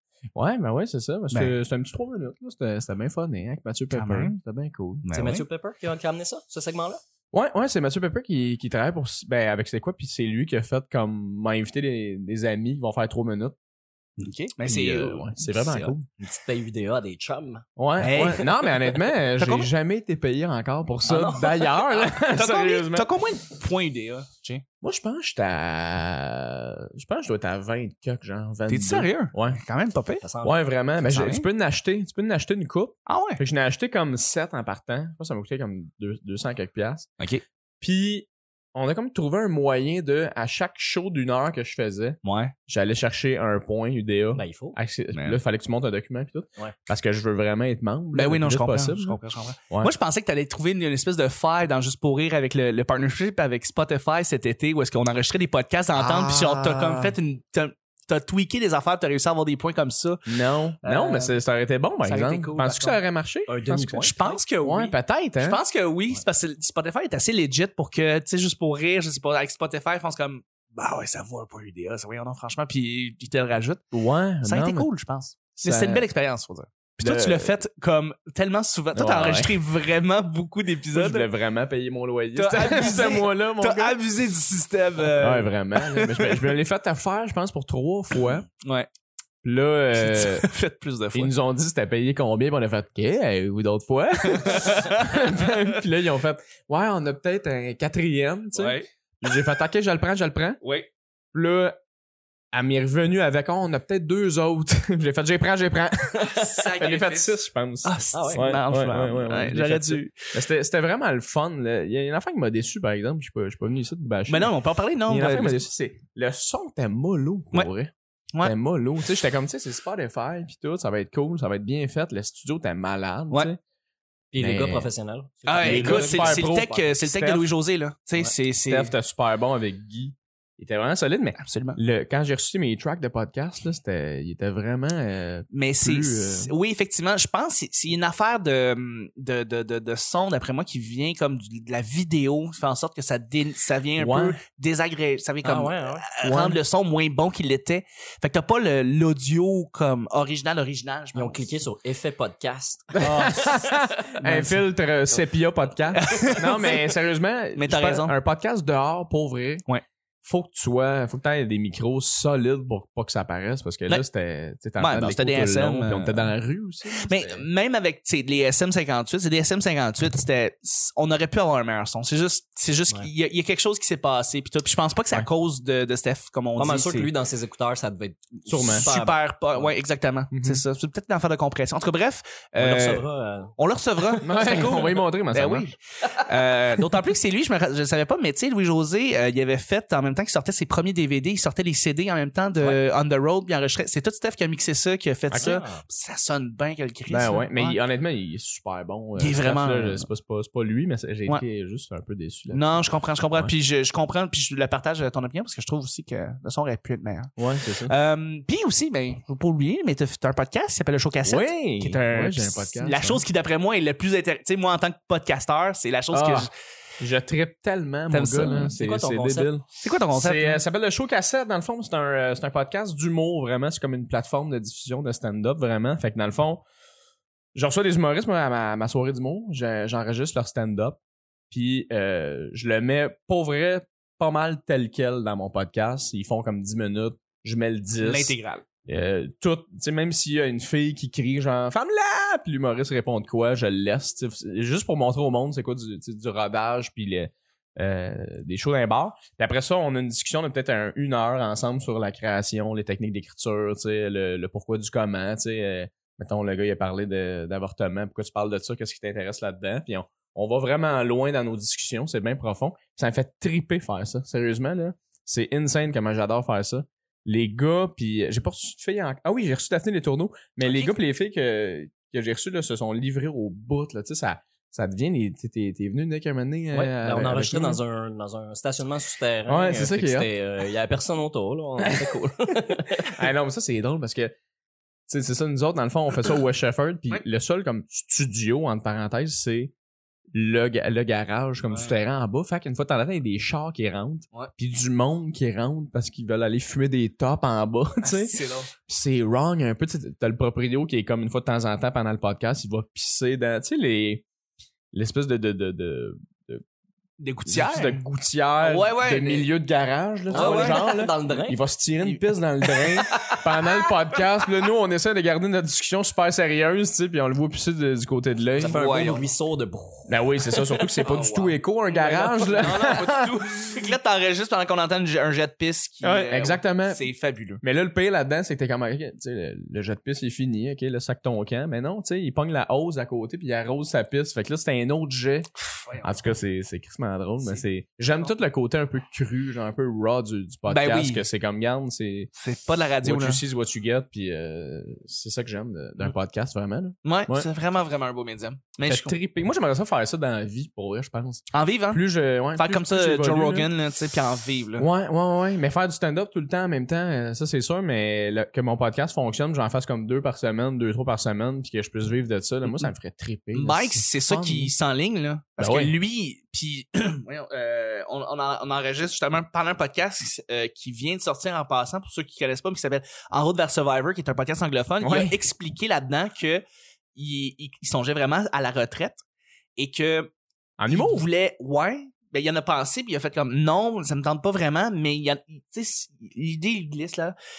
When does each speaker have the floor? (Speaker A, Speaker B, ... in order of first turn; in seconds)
Speaker A: 0.3-5.0, 7.3-13.6, 14.6-16.1, 17.8-23.1, 24.8-29.6, 30.4-37.1, 37.8-49.2, 55.9-57.1, 60.3-65.6, 73.9-74.9, 75.5-76.1, 77.0-77.6, 78.9-79.6, 80.9-84.0, 85.2-88.5, 89.4-90.5, 91.1-100.6, 101.3-101.8, 102.5-114.5, 115.1-123.6, 124.4-124.9, 125.6-126.8, 128.7-136.5, 144.0-144.4, 146.2-146.6, 153.0-159.6, 160.2-167.4, 178.4-178.9, 180.3-180.6, 184.2-185.7, 195.3-195.6, 197.1-203.5, 207.4-207.9, 211.2-213.2, 216.1-226.6, 227.5-231.0, 231.5-277.8, 279.5-280.3, 281.8-284.3, 285.1-289.7, 290.3-304.2, 304.9-306.6, 307.4-318.8, 320.1-323.9, 326.0-327.1, 327.6-335.5, 336.0-342.3, 343.0-347.5, 348.9-353.7, 354.8-364.7, 365.6-365.9, 375.0-375.3, 380.8-381.2
Speaker B: 3.9-4.3, 5.0-5.4, 14.2-15.9, 18.0-18.5, 19.4-19.7, 22.3-24.6, 28.7-30.2, 31.0-31.4, 33.1-33.4, 42.2-42.5, 48.1-60.2, 60.8-61.4, 62.0-63.0, 63.9-73.8, 74.4-81.3, 82.3-86.5, 88.3-88.9, 89.9-91.3, 94.3-95.3, 98.5-98.9, 100.6-100.9, 106.2-110.3, 114.3-115.6, 125.5-128.9, 131.4-131.8, 135.5-151.5, 155.9-156.8, 157.6-158.1, 164.8-166.3, 167.0-177.1, 178.7-183.0, 183.6-197.8, 199.2-200.1, 202.5-207.3, 207.8-216.5, 218.1-218.6, 219.8-220.6, 238.0-238.6, 270.6-271.0, 291.7-291.9, 298.0-298.7, 307.2-308.0, 308.6-309.5, 310.3-310.9, 312.0-312.9, 318.6-319.3, 321.0-327.6, 335.7-336.1, 340.7-341.2, 342.4-343.4, 347.0-349.1, 351.5-352.0, 352.5-354.9, 363.5-376.6, 377.1-379.2, 379.8-380.3, 380.9-387.3
Speaker C: 5.1-7.0, 16.2-18.6, 21.1-22.1, 30.2-30.6, 44.3-44.8, 63.5-64.4, 108.1-108.6, 124.3-127.5, 145.4-146.1, 151.1-155.2, 176.6-179.7, 182.6-183.5, 195.3-195.8, 218.4-219.5, 276.7-283.2, 310.3-311.6, 318.6-320.9, 322.4-323.1